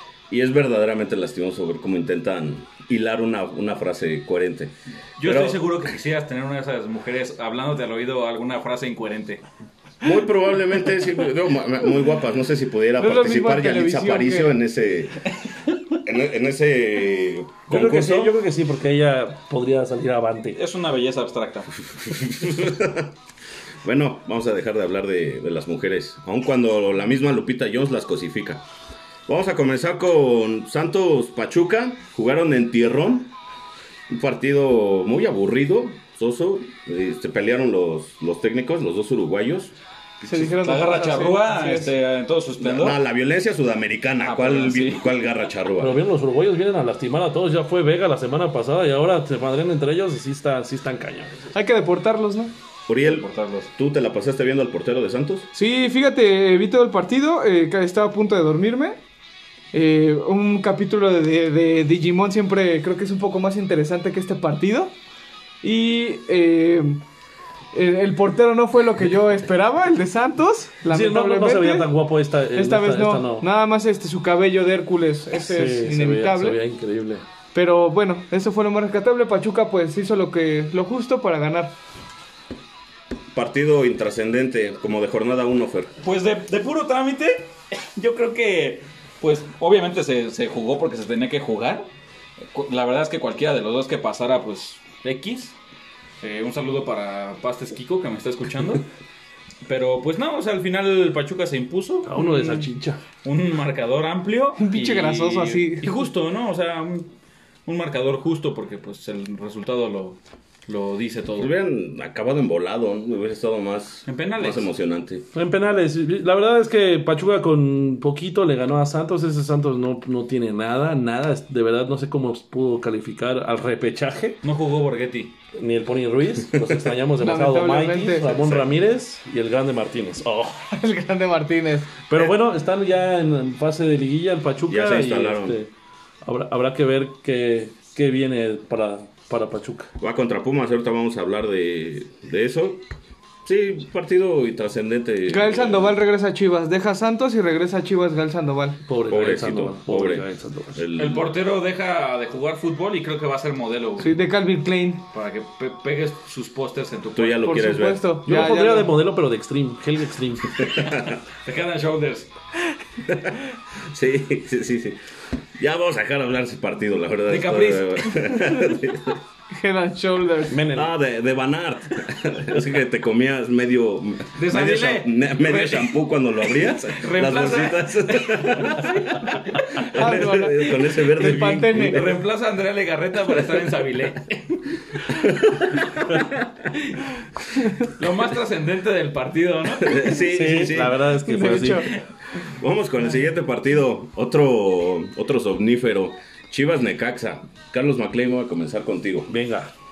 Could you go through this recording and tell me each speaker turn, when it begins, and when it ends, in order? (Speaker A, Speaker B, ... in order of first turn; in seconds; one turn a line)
Speaker A: 0.3-5.6
Speaker B: 5.2-9.4
Speaker A: 10.0-15.3
Speaker C: 13.0-14.6
Speaker A: 16.0-18.3
Speaker D: 17.7-20.6
Speaker B: 20.6-21.8
Speaker A: 21.9-23.1
Speaker A: 23.8-28.6
Speaker A: 29.3-33.3
Speaker A: 34.1-39.7
Speaker C: 40.2-41.9
Speaker B: 40.3-43.0
Speaker A: 42.6-46.0
Speaker B: 44.2-45.1
Speaker D: 45.8-51.5
Speaker C: 51.5-52.5
Speaker A: 52.9-55.5
Speaker B: 53.0-53.7
Speaker C: 55.5-59.0
Speaker C: 59.7-64.9
Speaker C: 65.6-67.0
Speaker C: 67.7-71.9
Speaker D: 70.9-73.5
Speaker C: 72.5-76.6
Speaker D: 75.3-77.3
Speaker C: 77.5-81.7
Speaker A: 83.3-85.9
Speaker B: 86.0-91.9
Speaker B: 92.5-95.6
Speaker B: 96.2-98.9
Speaker B: 99.7-102.7
Speaker D: 102.1-103.0
Speaker B: 103.2-107.1
Speaker C: 104.6-106.1
Speaker B: 107.7-111.5
Speaker A: 111.4-115.2
Speaker B: 114.0-114.7
Speaker D: 115.3-124.4
Speaker B: 124.4-125.4
Speaker D: 125.5-130.7
Speaker A: 126.5-126.9
Speaker C: 127.2-128.4
Speaker A: 128.4-128.7
Speaker C: 130.7-131.9
Speaker D: 132.1-135.7
Speaker A: 134.7-135.6
Speaker D: 136.2-139.9
Speaker A: 140.0-142.8
Speaker A: 143.4-146.0
Speaker C: 145.3-148.8
Speaker D: 148.9-150.8
Speaker A: 149.1-151.3
Speaker B: 151.0-154.2
Speaker C: 154.0-155.0
Speaker B: 155.1-157.6
Speaker A: 157.2-158.4
Speaker C: 157.4-158.9
Speaker D: 158.3-160.7
Speaker A: 160.6-161.2
Speaker B: 161.1-162.3
Speaker A: 163.1-165.0
Speaker A: 165.6-169.2
Speaker B: 167.3-168.3
Speaker C: 169.5-170.6
Speaker D: 170.5-170.9
Speaker A: 170.7-182.2
Speaker B: 174.4-179.9
Speaker C: 179.9-182.0
Speaker B: 181.1-186.9
Speaker A: 183.3-183.6
Speaker A: 185.1-186.2
Speaker B: 187.8-190.2
Speaker A: 189.8-191.8
Speaker D: 190.2-191.9
Speaker C: 191.3-191.9
Speaker B: 191.8-192.0
Speaker A: 192.4-199.3
Speaker D: 199.3-199.7